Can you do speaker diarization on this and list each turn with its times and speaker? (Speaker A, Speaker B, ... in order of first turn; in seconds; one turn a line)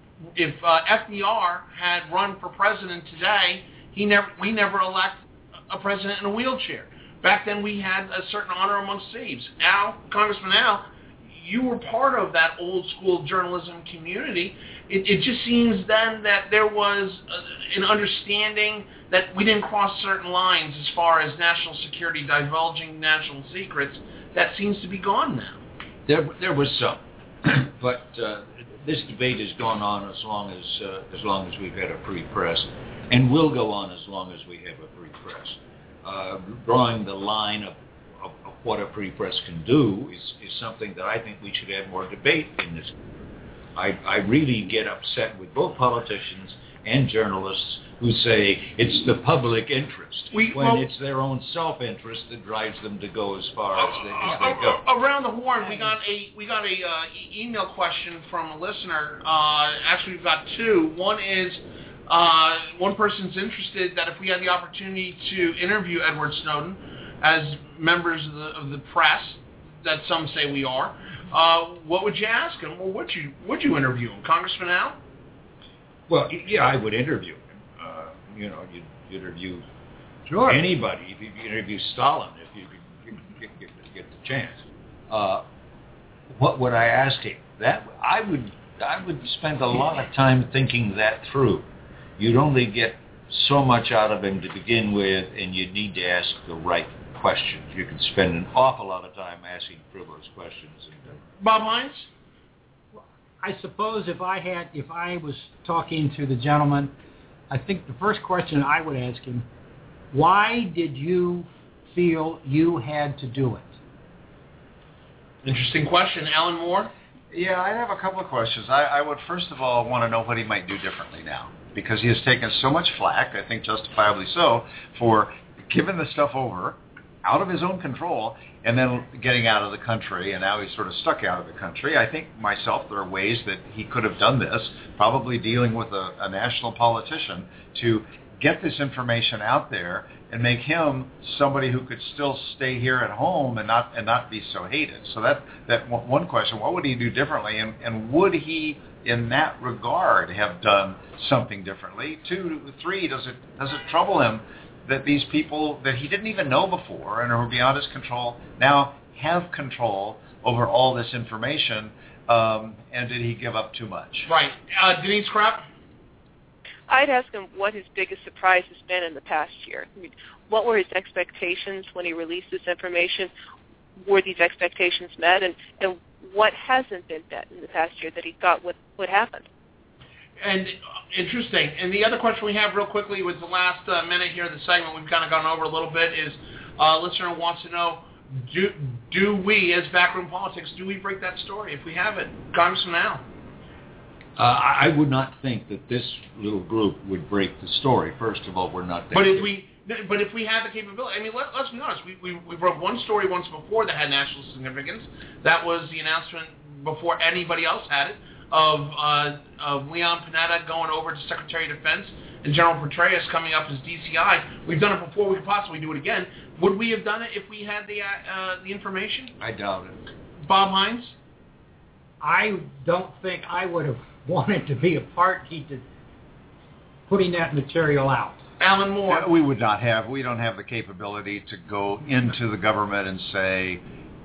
Speaker A: 0.3-25.6
Speaker B: 26.1-43.0
Speaker B: 43.8-54.8
Speaker A: 50.3-50.9
Speaker A: 53.8-75.0
Speaker B: 76.1-79.7
Speaker B: 80.4-85.4
Speaker B: 86.3-101.2
Speaker A: 101.4-102.1
Speaker C: 102.9-106.9
Speaker C: 107.5-109.5
Speaker C: 110.1-113.8
Speaker A: 115.4-116.9
Speaker D: 117.3-164.3
Speaker A: 164.3-165.7
Speaker E: 166.9-173.3
Speaker E: 174.0-179.4
Speaker A: 180.4-193.2
Speaker B: 194.4-199.5
Speaker A: 199.1-219.3
Speaker B: 219.4-220.0
Speaker A: 220.4-221.2
Speaker C: 222.2-225.8
Speaker C: 227.1-228.4
Speaker A: 228.6-229.3
Speaker D: 229.1-233.8